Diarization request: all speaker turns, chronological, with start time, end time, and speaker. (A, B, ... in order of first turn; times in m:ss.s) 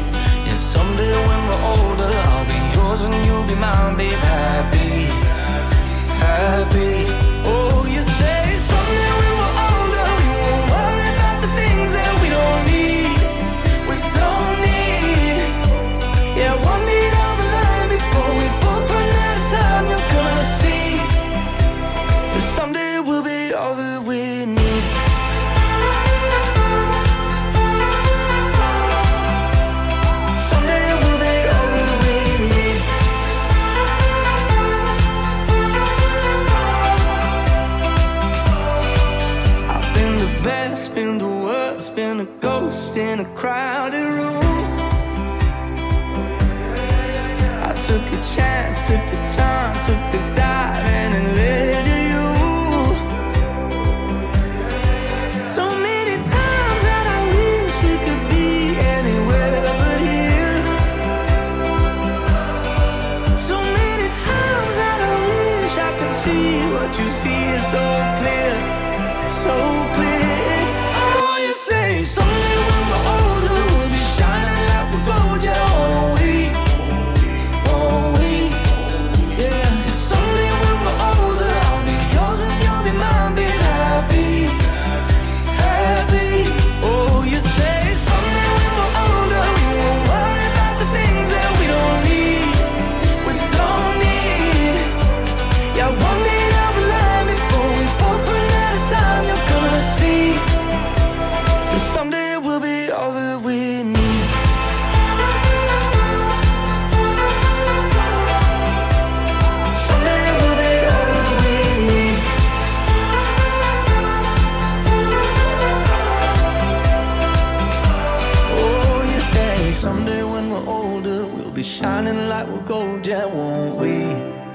0:00.4-0:05.2 A
0:06.1-0:15.6 A
0:16.3-0:21.2 A
0:22.3-0:25.0 A
0:30.4-0:32.9 A
0:39.7-0:44.8 A
0:47.6-0:53.0 A
0:55.4-1:00.7 A
1:03.3-1:08.7 A
1:09.3-1:16.6 A
1:17.6-1:24.8 A
1:25.5-1:35.0 A
1:35.7-1:40.5 A
1:41.7-1:44.4 A
1:49.7-1:52.3 A
1:58.4-2:04.3 A